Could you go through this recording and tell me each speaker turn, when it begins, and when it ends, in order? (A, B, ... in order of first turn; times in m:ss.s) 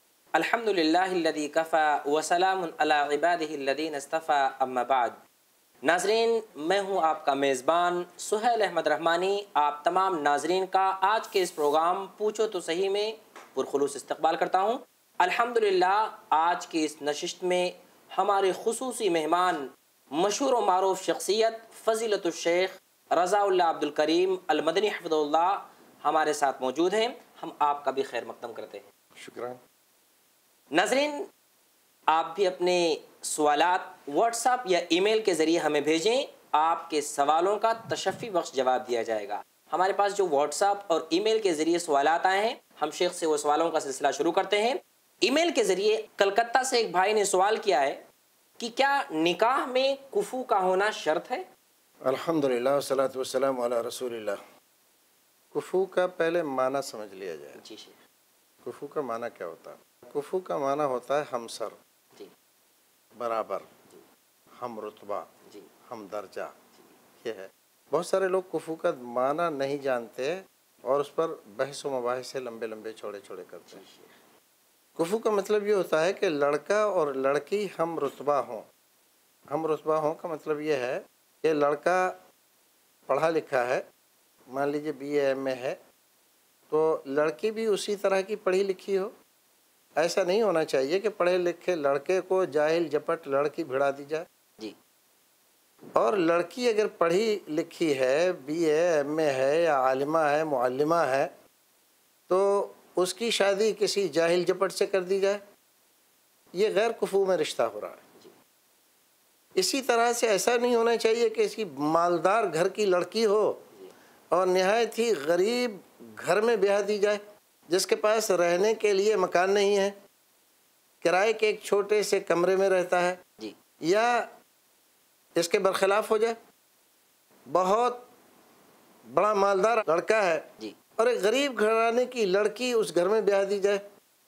0:00.4-0:05.2 A
0:05.8-0:28.8 A
0:29.2-0:29.6 B
0:30.7-0:31.3 A
0:32.1-0:48.0 A
0:48.6-0:51.4 A
0:52.0-0:54.4 B
0:55.5-0:57.6 B
0:57.6-0:58.0 A
0:58.6-1:01.8 B
1:03.2-1:03.7 B
1:04.5-1:05.3 B
1:05.4-1:05.7 A
1:05.8-1:06.5 B
1:07.2-1:13.8 B
1:13.6-1:14.2 A
1:15.0-1:18.7 B
1:19.5-1:22.2 B
1:23.1-1:23.8 B
1:24.5-1:25.8 B
1:26.7-1:29.1 B
1:30.0-1:34.2 B
1:36.0-1:41.3 B
1:42.3-1:45.4 B
1:46.5-1:48.0 B
1:49.6-1:53.6 B
1:54.3-2:00.0 B
2:01.0-2:03.2 B
2:03.8-2:04.3 B
2:05.4-2:06.4 B
2:07.5-2:08.0 B
2:09.1-2:13.8 B